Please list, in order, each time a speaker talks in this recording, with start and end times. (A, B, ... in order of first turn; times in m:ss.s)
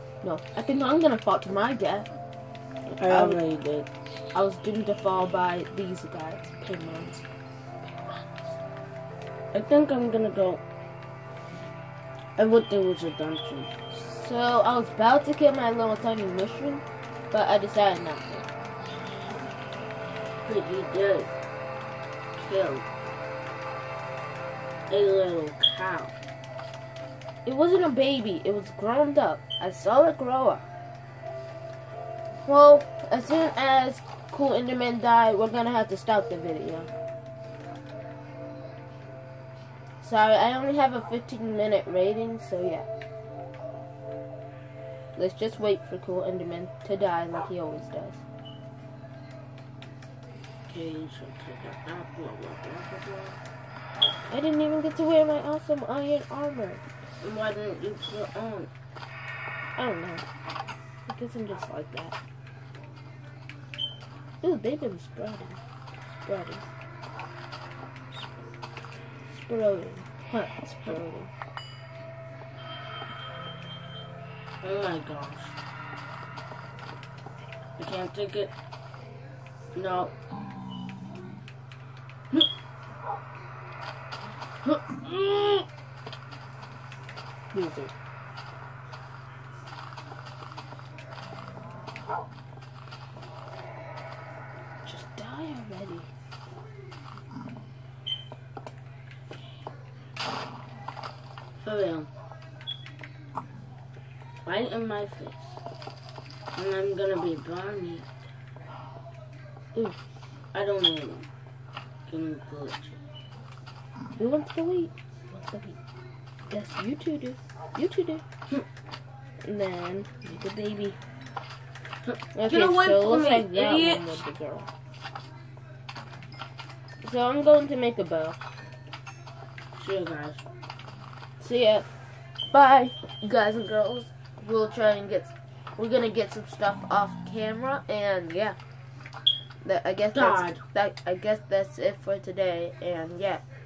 0:00.2-0:02.1 A
0:02.9-0:03.4 A
0:03.0-0:03.9 B
0:04.3-0:07.2 A
0:07.8-0:08.6 A
0:09.5-0:10.6 B
0:12.4-0:13.7 B
0:13.9-0:18.5 A
0:20.4-0:21.3 B
0:22.4-0:22.8 B
0:24.9-0:26.1 B
0:27.4-0:30.7 A
0:32.5-0:36.9 A
0:40.0-0:42.9 A
0:45.2-0:48.2 A
0:50.7-0:53.4 B
0:54.3-0:56.8 A
0:57.2-0:58.7 B
0:59.8-1:00.2 A
1:01.0-1:02.2 A
1:04.4-1:05.6 A
1:06.2-1:06.7 A
1:09.3-1:11.3 A
1:14.6-1:15.6 B
1:17.8-1:18.5 B
1:19.8-1:20.1 B
1:24.6-1:25.7 B
1:27.5-1:27.9 A
1:34.8-1:36.1 A
1:41.6-1:42.1 B
1:44.4-1:45.6 B
1:46.5-1:48.1 B
1:50.5-1:51.2 B
1:52.1-1:53.0 B
1:54.2-1:55.8 A
1:56.5-1:58.2 A
1:59.4-2:01.0 A
2:02.0-2:04.2 B
2:02.3-2:04.7 A
2:07.0-2:08.4 A
2:09.8-2:10.4 B
2:11.4-2:11.9 A
2:12.5-2:18.6 A
2:19.6-2:23.4 A
2:20.1-2:20.6 B